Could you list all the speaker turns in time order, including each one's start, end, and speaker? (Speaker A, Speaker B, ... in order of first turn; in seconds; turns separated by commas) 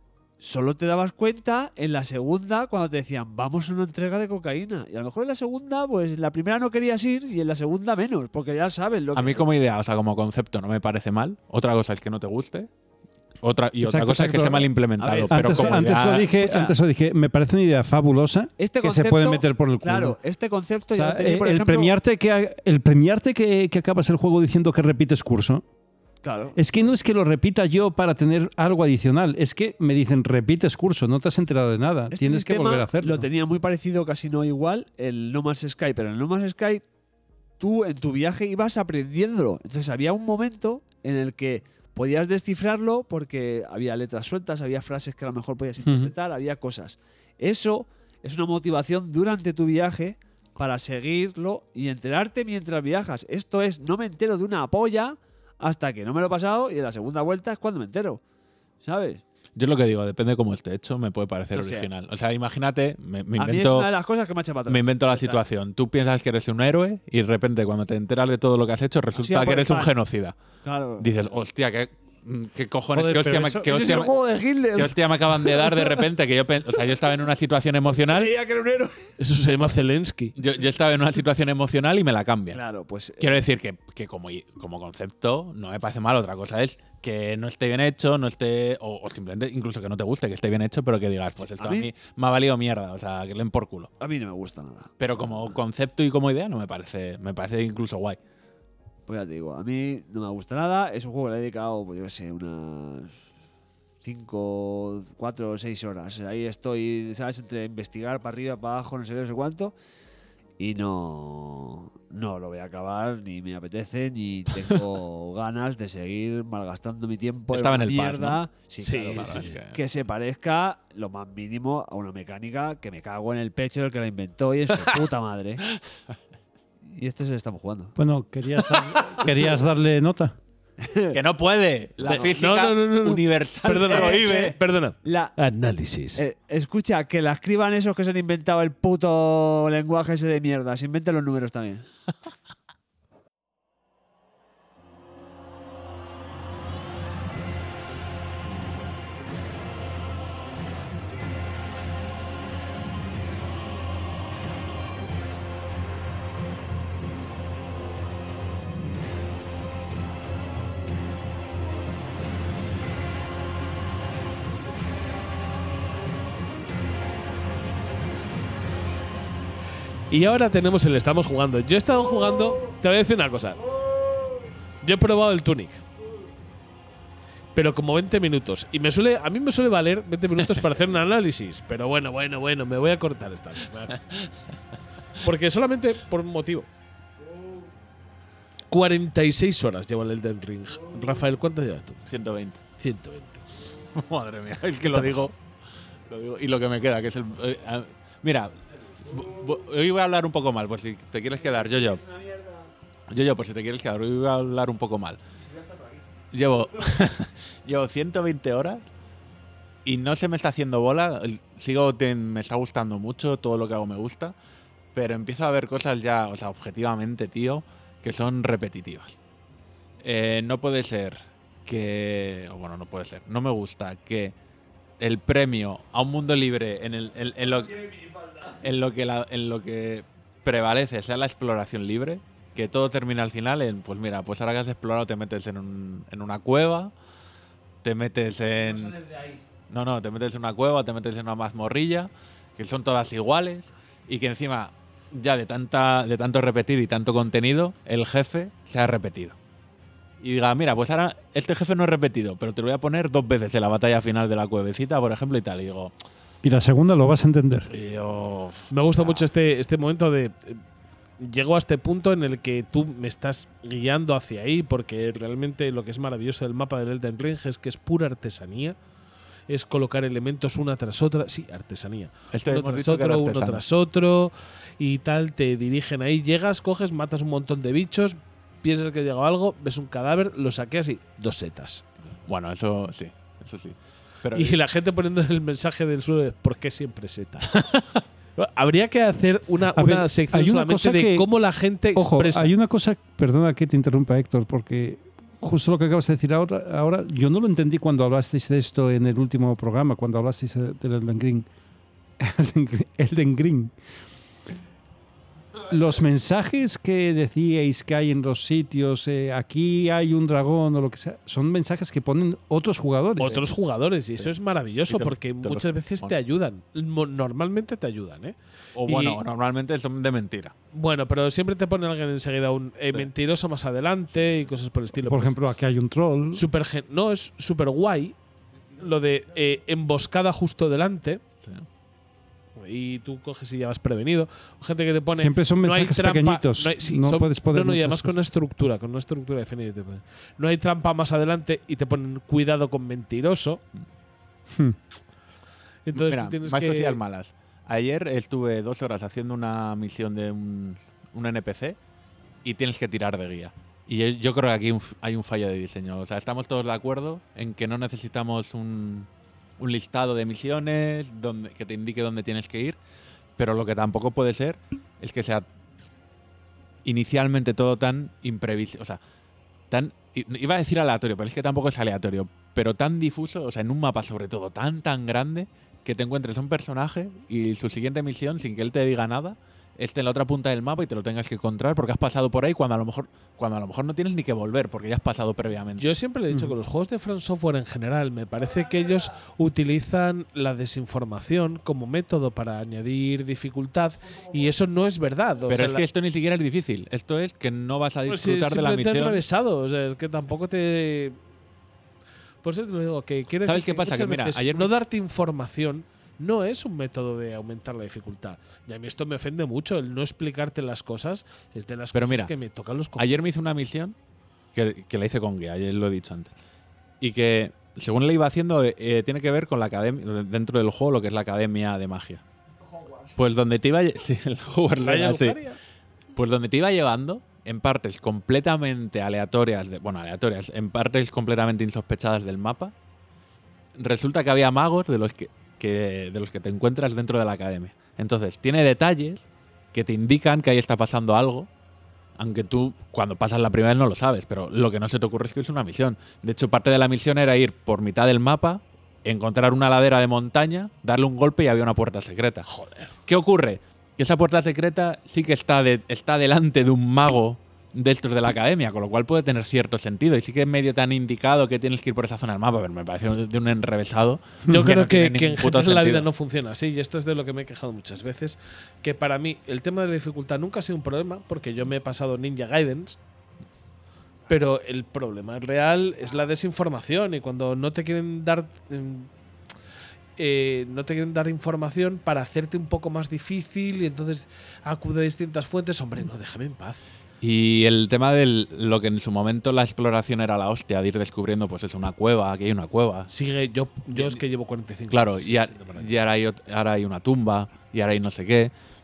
Speaker A: 0.4-9.5, Speaker B: 9.2-12.7, Speaker B: 13.4-16.3, Speaker C: 13.8-14.7, Speaker A: 15.0-16.8, Speaker C: 15.3-20.2, Speaker A: 18.6-21.9, Speaker C: 21.0-25.6, Speaker A: 26.2-26.6, Speaker C: 26.6-33.2, Speaker A: 32.1-36.8, Speaker A: 37.6-58.2, Speaker C: 45.8-46.1, Speaker A: 58.8-59.2, Speaker B: 59.6-63.9, Speaker A: 61.5-61.9, Speaker A: 63.4-65.4, Speaker B: 64.7-70.3, Speaker A: 69.1-69.9, Speaker A: 70.6-71.3, Speaker B: 71.0-74.1, Speaker C: 73.0-73.6, Speaker A: 73.5-76.1, Speaker B: 74.7-78.3, Speaker A: 77.9-79.1, Speaker D: 79.2-80.3, Speaker B: 80.4-82.6, Speaker A: 82.5-83.4, Speaker B: 83.2-93.9, Speaker A: 91.6-91.9, Speaker A: 94.0-95.6, Speaker B: 95.0-98.2, Speaker A: 99.1-103.2, Speaker A: 104.0-109.8, Speaker A: 110.6-125.6, Speaker B: 117.5-118.4, Speaker D: 118.8-119.5, Speaker B: 119.2-119.8, Speaker A: 126.8-128.0, Speaker C: 128.0-130.4, Speaker A: 130.8-131.2, Speaker B: 131.1-134.6, Speaker A: 132.1-132.3, Speaker D: 132.1-136.2, Speaker A: 133.7-135.3, Speaker A: 136.2-141.9, Speaker D: 170.1-173.6, Speaker D: 174.8-175.8, Speaker D: 177.6-184.0, Speaker D: 185.2-186.7, Speaker D: 188.7-192.0, Speaker B: 192.1-192.6, Speaker D: 192.8-193.4, Speaker B: 193.9-195.3, Speaker B: 196.1-198.6, Speaker B: 199.1-202.0, Speaker A: 201.6-202.7, Speaker B: 203.1-205.2, Speaker A: 205.5-206.0, Speaker B: 206.3-208.8, Speaker B: 209.8-214.3, Speaker B: 214.9-219.2, Speaker B: 220.0-224.3, Speaker B: 225.0-236.9, Speaker B: 237.8-239.0, Speaker A: 238.6-239.4, Speaker B: 239.7-249.4, Speaker B: 250.2-255.9, Speaker C: 256.4-257.7, Speaker B: 257.7-259.2, Speaker D: 258.7-260.6, Speaker D: 261.2-268.8, Speaker D: 269.5-281.9, Speaker B: 272.3-273.6, Speaker B: 282.3-284.6, Speaker D: 284.3-287.6, Speaker B: 287.5-287.8, Speaker D: 288.4-292.5, Speaker C: 289.8-291.3, Speaker C: 291.9-301.5, Speaker C: 302.2-303.7, Speaker C: 305.7-313.4, Speaker D: 313.2-319.2, Speaker B: 314.9-316.1, Speaker B: 318.8-320.5, Speaker D: 320.7-325.5, Speaker C: 325.1-326.4, Speaker D: 326.3-328.2, Speaker D: 328.8-331.2, Speaker D: 332.6-343.6, Speaker C: 335.2-338.1, Speaker C: 344.5-344.8, Speaker D: 345.9-347.0, Speaker B: 345.9-351.8, Speaker B: 352.4-362.8, Speaker B: 363.4-365.4, Speaker B: 366.9-369.0, Speaker B: 369.7-385.9, Speaker D: 385.8-395.9, Speaker B: 395.5-399.2, Speaker D: 398.1-401.2, Speaker D: 402.4-413.2, Speaker B: 403.4-404.7, Speaker B: 411.9-412.3, Speaker B: 413.0-414.0, Speaker B: 414.5-416.3, Speaker B: 417.0-422.2, Speaker B: 423.1-425.4, Speaker D: 424.8-425.6, Speaker B: 426.2-432.7, Speaker B: 433.8-441.5, Speaker B: 442.2-452.5, Speaker D: 452.5-452.9, Speaker B: 453.1-466.1, Speaker D: 464.5-473.0, Speaker D: 474.3-479.1, Speaker D: 480.2-486.8, Speaker B: 487.2-493.1, Speaker D: 493.1-495.9, Speaker B: 493.9-494.2, Speaker B: 494.9-498.5